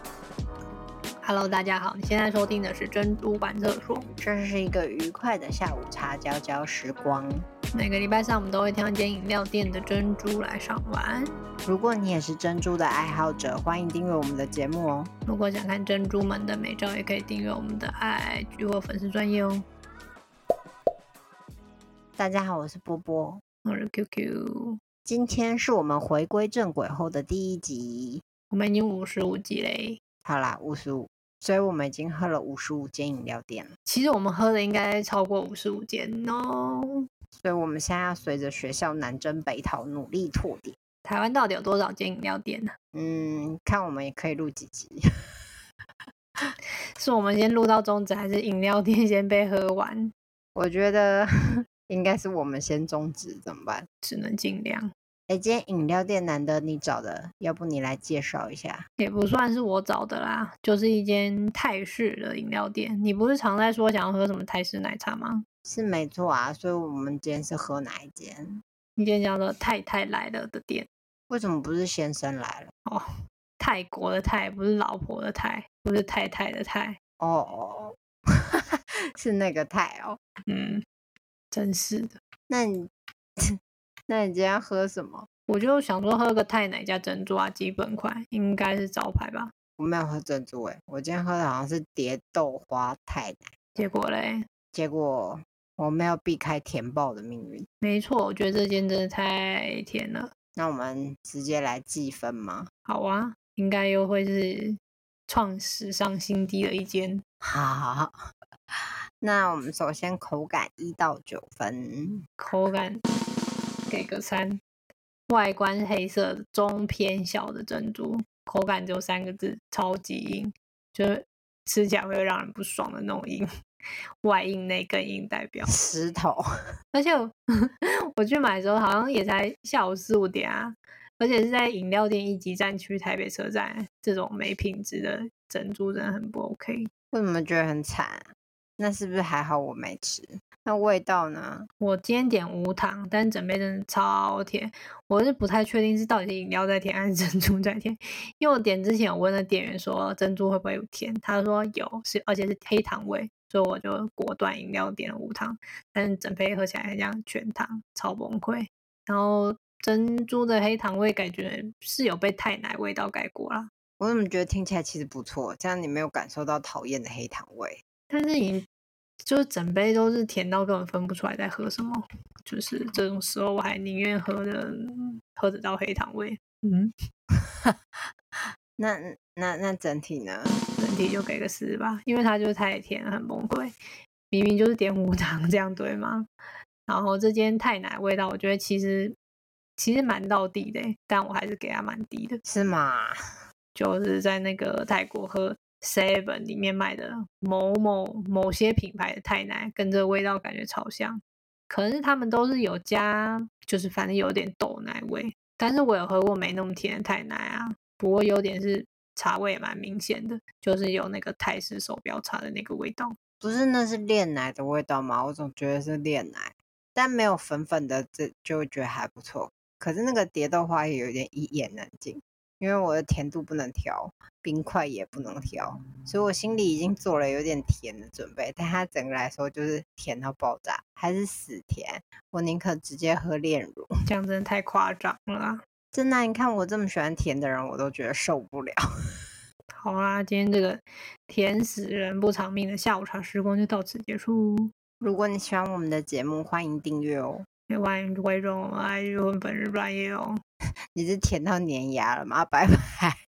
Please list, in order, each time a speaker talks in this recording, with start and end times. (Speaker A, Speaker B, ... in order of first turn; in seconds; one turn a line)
Speaker A: 1.2-4.1
Speaker B: 4.2-7.5
Speaker A: 7.7-11.3
Speaker B: 11.7-15.1
Speaker A: 15.3-19.6
Speaker B: 22.2-23.4
Speaker A: 23.6-24.8
Speaker B: 25.1-28.2
Speaker A: 28.5-30.0
Speaker B: 30.2-33.7
Speaker A: 33.9-37.0
Speaker B: 37.4-40.8
Speaker A: 41.0-42.7
Speaker B: 42.9-45.0
Speaker A: 47.0-50.1
Speaker B: 50.5-53.9
Speaker A: 54.0-54.9
Speaker B: 55.3-58.9
Speaker A: 59.0-65.5
Speaker B: 65.7-68.6
Speaker A: 69.0-70.9
Speaker B: 71.3-72.7
Speaker A: 73.6-77.0
Speaker B: 77.2-80.2
Speaker A: 80.5-80.8
Speaker A: 81.5-82.2
Speaker B: 82.5-83.5
Speaker B: 84.1-85.3
Speaker A: 85.5-89.5
Speaker B: 89.8-93.5
Speaker A: 93.8-94.5
Speaker B: 94.7-97.7
Speaker A: 97.8-100.3
Speaker B: 100.6-102.7
Speaker A: 102.9-107.2
Speaker B: 107.4-108.2
Speaker B: 108.8-112.2
Speaker A: 112.4-113.0
Speaker A: 113.9-114.6
Speaker A: 115.3-123.5
Speaker A: 124.2-125.7
Speaker B: 125.7-126.5
Speaker A: 126.9-136.9
Speaker B: 137.1-141.7
Speaker A: 141.8-163.7
Speaker B: 164.0-167.8
Speaker A: 168.1-168.7
Speaker A: 169.2-176.9
Speaker B: 177.4-177.8
Speaker B: 178.8-180.6
Speaker A: 180.8-183.7
Speaker A: 184.3-186.3
Speaker A: 186.9-189.2
Speaker A: 189.8-192.4
Speaker B: 192.4-193.2
Speaker A: 193.8-213.2
Speaker B: 213.4-233.9
Speaker A: 234.1-235.6
Speaker B: 235.9-238.8
Speaker A: 239.8-244.7
Speaker B: 245.0-247.5
Speaker A: 247.7-250.4
Speaker B: 250.9-253.2